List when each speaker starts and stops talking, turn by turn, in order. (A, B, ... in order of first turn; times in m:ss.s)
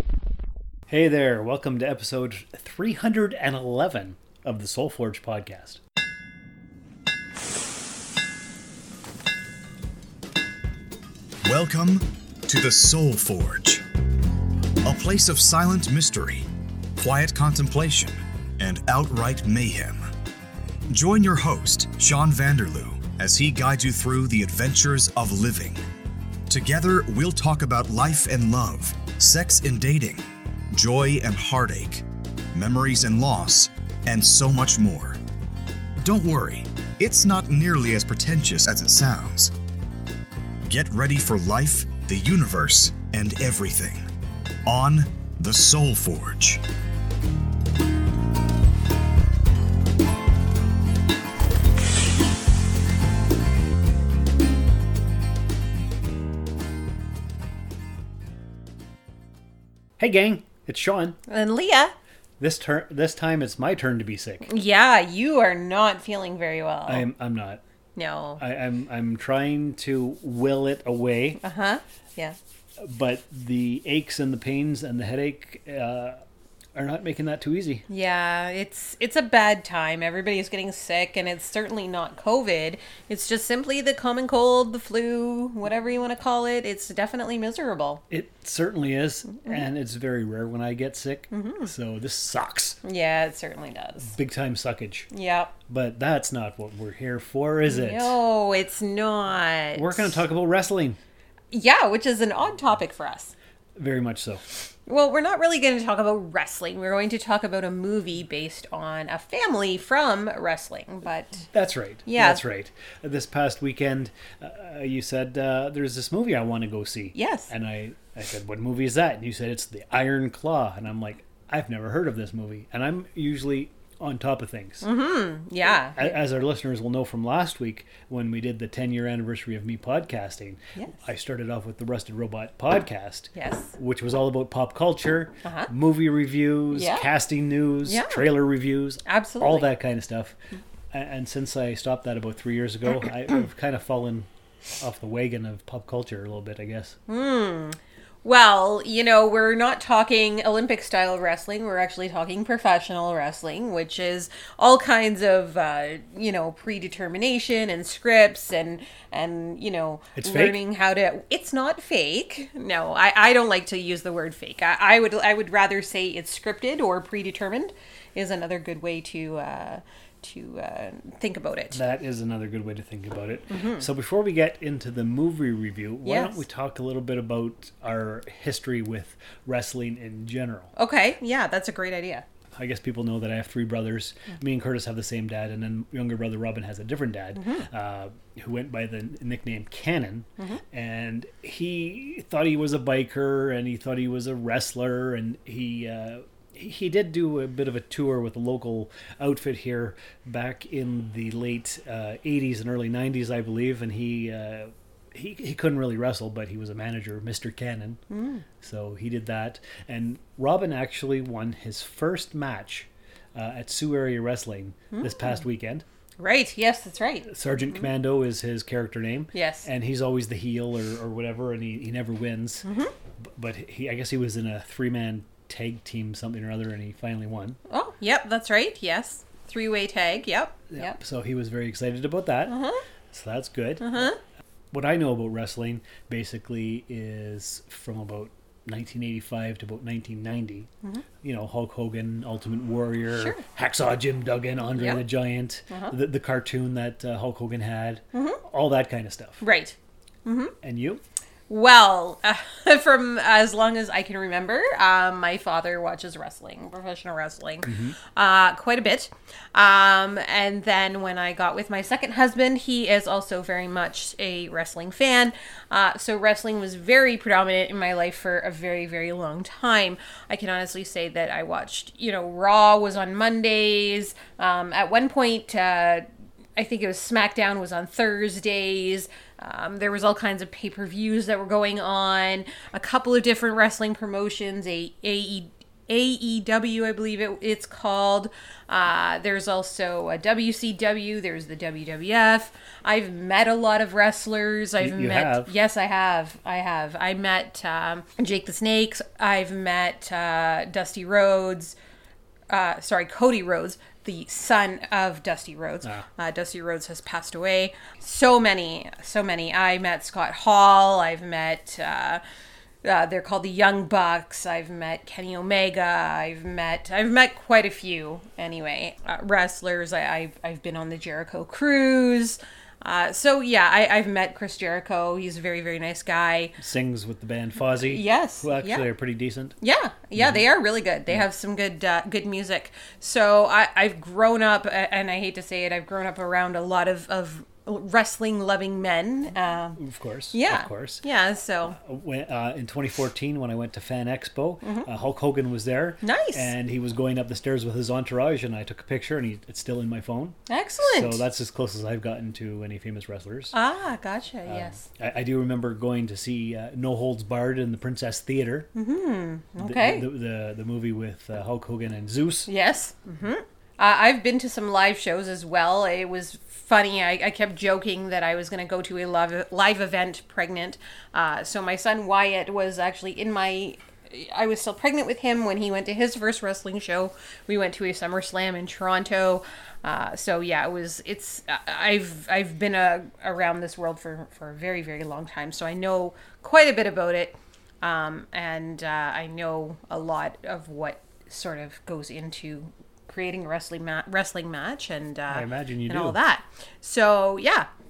0:00.9-0:05.8 A
0:11.4-0:13.8 B
0:14.8-0:16.4 B
0:17.0-0:20.0 B
0:20.9-0:25.8 B
0:26.5-0:35.2 B
0:36.0-0:39.5 B
0:40.6-0:44.0 B
0:44.6-0:46.6 B
1:00.0-1:01.2 A
1:01.3-1:01.9 C
1:02.4-1:04.5 A
1:04.4-1:07.1 C
1:06.8-1:07.6 A
1:08.0-1:08.4 C
1:08.4-1:11.4 A
1:11.4-1:12.4 C
1:12.8-1:16.2 A
1:16.7-1:17.8 A
1:17.9-1:28.0 C
1:28.1-1:32.8 A
1:29.3-1:29.6 C
1:31.3-1:31.7 C
1:32.8-1:34.1 C
1:34.1-1:35.1 A
1:35.1-1:35.5 C
1:35.7-1:38.2 A
1:37.6-1:40.2 C
1:39.7-1:41.0 A
1:41.5-1:43.3 C
1:43.8-1:44.4 A
1:44.9-1:51.5 C
1:51.5-2:04.9 A
1:52.0-1:52.4 C
1:57.1-1:57.5 C
2:04.8-2:06.2 C
2:05.8-2:20.4 A
2:13.3-2:13.7 C
2:15.4-2:15.7 C
2:16.7-2:17.0 C
2:17.8-2:18.3 C
2:19.0-2:19.7 C
2:20.9-2:27.0 A
2:27.1-2:51.8 C
2:40.2-2:40.6 A
2:51.7-3:00.7 A
2:53.5-2:53.9 C
2:56.0-2:56.4 C
3:00.8-3:02.2 C
3:02.5-3:28.0 A
3:07.3-3:07.6 C
3:28.1-3:28.4 C
3:28.6-3:35.8 A
3:34.9-3:35.4 C
3:36.2-3:37.8 C
3:37.2-3:42.7 A
3:39.3-3:39.7 C
3:42.6-3:42.9 C
3:43.2-3:47.6 A
3:47.7-3:51.0 C
3:50.7-3:52.6 A
3:52.5-3:52.8 C
3:53.1-3:54.1 A
3:53.8-3:54.2 C
3:54.7-4:00.7 A
4:01.2-4:09.4 A
4:03.1-4:03.4 C
4:04.7-4:05.0 C
4:05.7-4:06.0 C
4:08.1-4:08.4 C
4:09.4-4:10.5 C
4:10.6-4:11.0 A
4:11.5-5:01.8 C
4:17.6-4:18.0 A
4:54.8-4:55.5 A
5:02.5-5:12.2 C
5:12.8-5:26.6 C
5:26.6-5:29.6 A
5:27.7-5:28.9 C
5:29.6-5:39.8 C
5:30.2-5:30.5 A
5:39.8-5:41.0 A
5:40.3-5:41.8 C
5:41.7-5:53.5 A
5:44.6-5:44.9 C
5:46.0-5:46.5 C
5:50.5-5:51.2 C
5:53.5-5:54.8 C
5:54.4-5:58.7 A
5:58.7-6:00.1 C
5:59.6-6:02.5 A
6:02.5-6:37.7 C
6:35.3-6:36.2 A